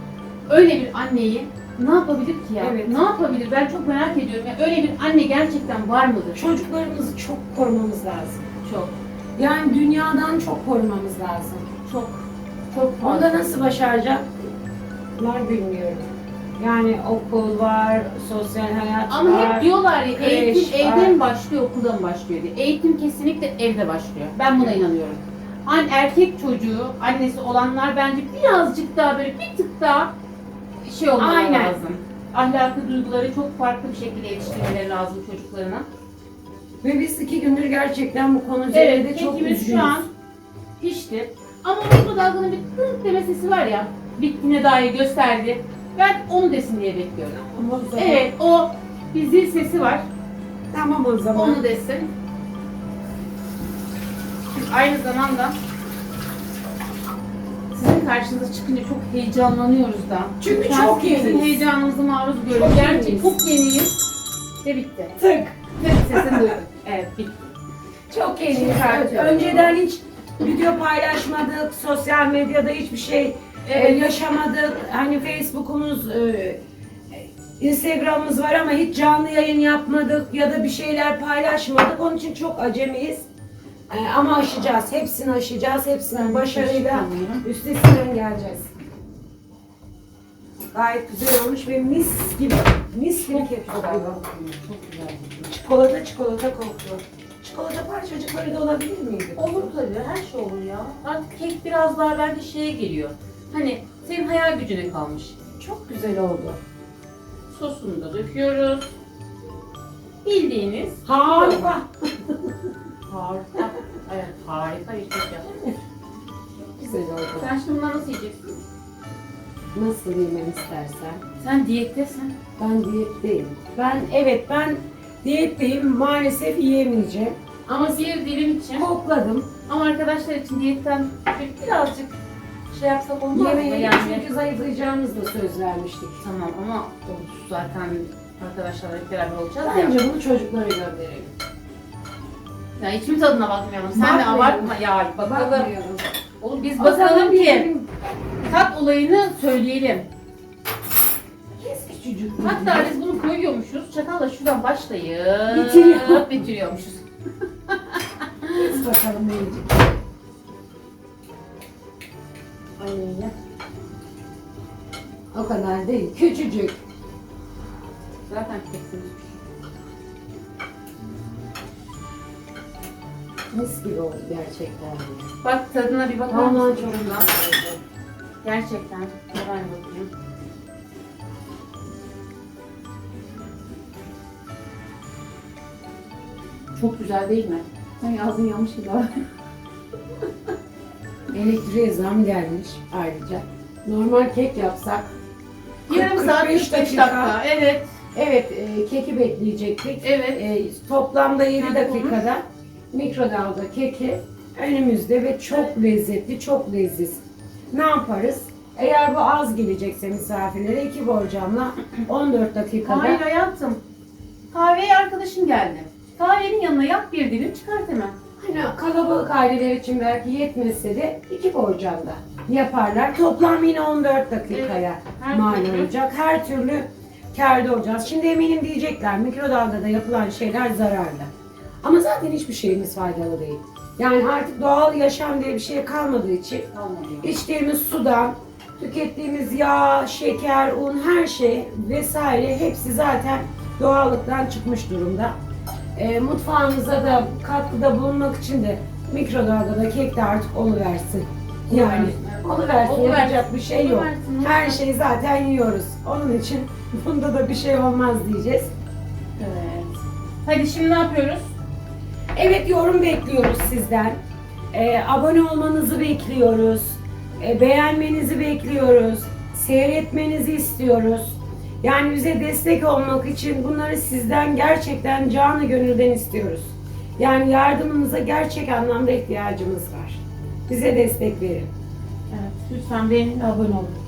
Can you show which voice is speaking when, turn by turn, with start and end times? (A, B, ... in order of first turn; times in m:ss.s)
0:00.5-0:06.4 A
0:02.6-0:03.0 B
0:06.4-0:08.5 B
0:08.6-0:09.0 A
0:09.4-0:11.7 B
0:11.9-0:13.5 A
0:13.0-0:14.3 B
0:15.2-0:21.2 B
0:19.1-0:30.1 A
0:30.8-0:35.9 A
0:31.2-0:31.8 B
0:36.8-0:40.1 B
0:38.7-0:40.1 A
0:40.8-0:47.4 A
0:47.4-0:48.3 B
0:48.0-0:50.0 A
0:50.7-0:51.6 B
0:51.4-0:52.1 A
0:54.5-0:55.6 A
0:57.7-1:04.0 A
1:00.4-1:01.6 B
1:02.5-1:03.4 B
1:04.6-1:05.2 A
1:05.2-1:05.6 B
1:05.8-1:07.5 A
1:06.1-1:06.6 B
1:08.1-1:16.6 B
1:08.5-1:09.8 A
1:13.6-1:14.2 A
1:17.1-1:23.3 B
1:23.9-1:28.7 B
1:26.1-1:27.4 A
1:30.7-1:34.2 B
1:33.2-1:35.5 A
1:35.4-1:39.7 B
1:39.4-1:45.4 A
1:45.6-1:46.6 B
1:47.5-1:48.9 A
1:50.2-1:51.8 A
1:51.0-1:51.9 B
1:53.1-1:55.6 A
1:56.8-1:57.5 B
1:57.4-1:58.6 A
1:59.7-2:01.2 B
2:01.4-2:02.4 A
2:02.6-2:07.8 B
2:07.7-2:08.9 A
2:08.8-2:09.5 B
2:09.7-2:12.2 A
2:12.7-2:14.2 A
2:13.3-2:16.2 B
2:16.2-2:20.0 A
2:19.6-2:21.3 B
2:22.8-2:25.7 A
2:24.0-2:26.1 B
2:26.4-2:27.7 A
2:26.8-2:27.9 B
2:28.4-2:30.1 A
2:31.6-2:33.0 B
2:32.4-2:37.0 A
2:35.5-2:36.3 B
2:37.7-2:38.5 A
2:38.5-2:39.9 B
2:42.8-2:43.3 A
2:45.3-2:46.8 B
2:48.3-2:49.4 A
2:53.5-2:55.3 B
2:55.4-2:57.3 A
2:56.3-2:57.8 B
2:58.4-3:00.1 A
3:06.8-3:09.1 A
3:11.3-3:15.1 B
3:15.9-3:17.9 A
3:15.9-3:17.4 B
3:18.1-3:33.2 B
3:20.0-3:20.4 A
3:21.6-3:22.2 A
3:32.8-3:33.8 A
3:34.5-3:38.2 A
3:38.4-3:51.3 B
3:44.5-3:45.9 A
3:51.8-3:56.7 B
3:56.7-3:57.3 A
3:57.2-4:05.4 B
4:06.0-4:18.7 B
4:11.7-4:14.8 A
4:19.4-4:19.9 A
4:20.4-4:21.6 A
4:22.4-4:24.2 B
4:24.7-4:41.7 B
4:42.3-4:44.0 A